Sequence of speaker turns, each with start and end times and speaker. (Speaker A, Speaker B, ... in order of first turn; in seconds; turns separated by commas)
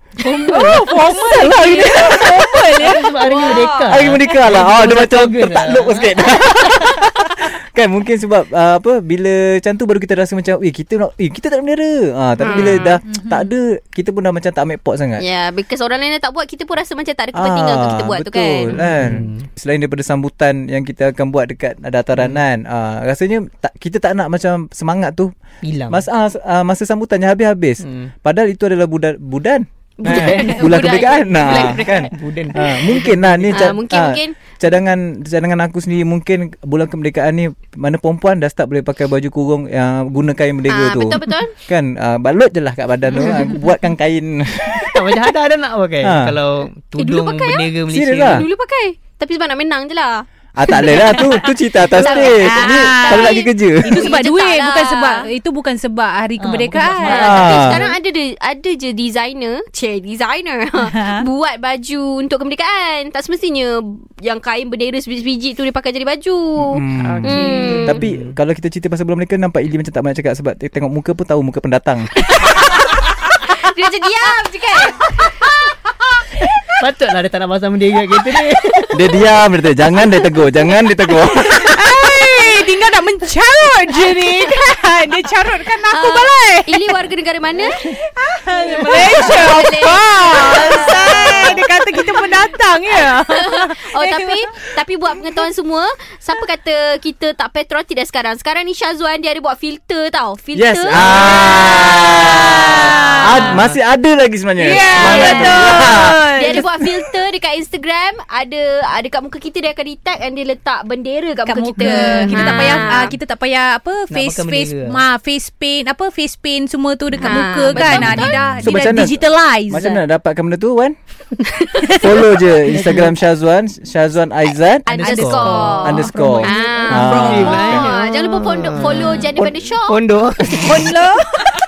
Speaker A: 0.2-0.9, Speaker B: 0.3-3.1, Speaker C: 0.5-2.7, Speaker A: 2.8-6.1, Speaker D: 3.2-4.0, Speaker C: 3.9-15.2, Speaker D: 12.4-13.0, Speaker B: 12.4-13.5, Speaker D: 15.2-18.7, Speaker C: 17.3-25.3, Speaker A: 18.7-19.4, Speaker A: 22.2-22.4, Speaker A: 25.6-26.1, Speaker C: 25.9-45.2, Speaker A: 27.8-28.1, Speaker A: 30.0-33.7, Speaker D: 33.5-34.4, Speaker D: 40.7-41.6, Speaker D: 43.1-43.6, Speaker A: 44.9-48.5, Speaker C: 46.0-46.4, Speaker D: 47.0-47.7, Speaker C: 47.9-48.5, Speaker D: 48.2-55.2, Speaker C: 50.5-54.0, Speaker B: 50.9-51.4, Speaker B: 52.0-57.6, Speaker A: 56.4-57.9, Speaker D: 57.0-68.0, Speaker C: 57.1-57.8, Speaker B: 60.8-61.2, Speaker C: 66.6-72.4, Speaker B: 67.0-67.9, Speaker A: 67.5-68.3, Speaker D: 72.4-75.5, Speaker B: 74.7-75.0, Speaker A: 76.7-78.9, Speaker C: 78.9-81.7, Speaker B: 81.3-86.9, Speaker D: 85.9-87.8, Speaker B: 87.8-94.5, Speaker D: 88.7-92.0, Speaker D: 92.9-103.5, Speaker C: 100.5-106.6, Speaker B: 101.0-103.6, Speaker B: 104.6-106.8, Speaker D: 104.6-113.1, Speaker B: 111.5-120.0, Speaker A: 112.5-112.9, Speaker A: 114.1-115.0, Speaker D: 117.2-118.7, Speaker A: 117.9-118.2, Speaker C: 118.0-120.9, Speaker B: 121.8-122.4, Speaker C: 122.0-125.2, Speaker A: 122.7-123.1, Speaker D: 124.8-130.0, Speaker B: 125.0-125.9, Speaker A: 125.0-130.8, Speaker C: 125.8-127.9, Speaker B: 127.0-127.5, Speaker B: 130.6-131.4